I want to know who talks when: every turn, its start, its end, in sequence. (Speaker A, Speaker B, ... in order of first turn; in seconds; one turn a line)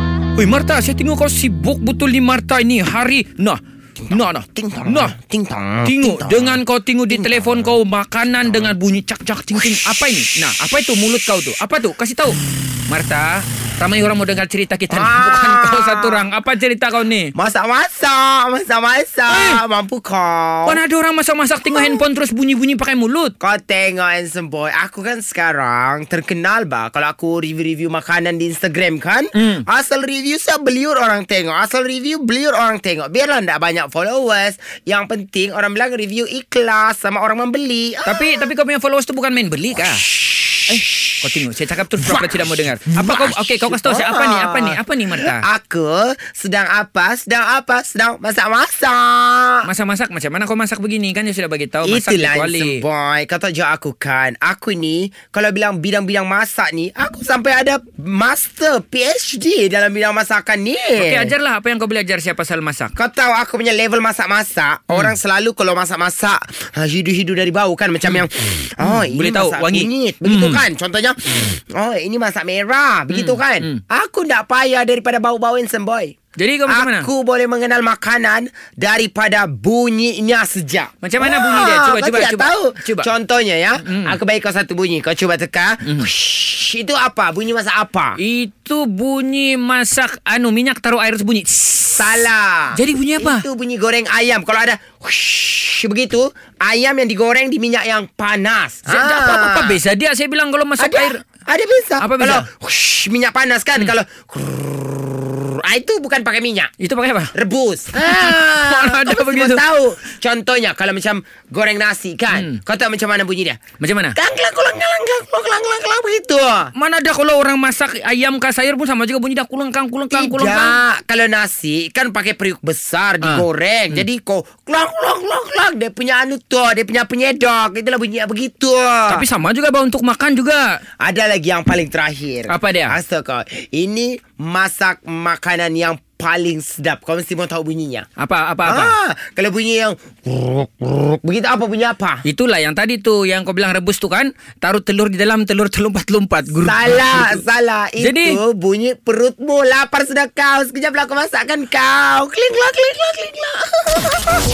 Speaker A: 0.4-5.1
Speaker B: 4.0-7.8
Speaker A: 5.8-12.4
Speaker A: 12.9-17.3
Speaker B: 14.9-16.2
Speaker B: 17.3-20.8
Speaker A: 19.3-19.6
Speaker A: 20.6-23.3
Speaker B: 23.4-38.5
Speaker A: 29.4-29.6
Speaker A: 38.0-40.0
Speaker A: 40.7-45.4
Speaker B: 42.0-49.7
Speaker A: 49.6-52.8
Speaker B: 51.8-61.3
Speaker A: 61.0-62.9
Speaker B: 62.9-76.1
Speaker A: 68.8-70.6
Speaker A: 73.1-73.8
Speaker A: 76.4-77.1
Speaker B: 76.7-88.2
Speaker A: 81.0-83.1
Speaker A: 83.8-84.2
Speaker A: 88.2-93.4
Speaker B: 92.0-99.8
Speaker A: 98.9-101.2
Speaker B: 100.8-106.7
Speaker A: 102.0-102.4
Speaker A: 106.8-107.3
Speaker B: 107.3-113.6
Speaker A: 108.0-109.6
Speaker A: 112.3-112.6
Speaker A: 113.8-114.2
Speaker B: 114.1-116.7
Speaker A: 116.7-120.8
Speaker B: 120.1-129.2
Speaker A: 123.2-124.0
Speaker A: 129.1-130.8
Speaker B: 131.0-138.1
Speaker A: 132.5-132.9
Speaker A: 138.2-138.9
Speaker B: 138.6-142.2
Speaker A: 142.2-147.4
Speaker B: 146.6-154.4
Speaker A: 148.0-148.4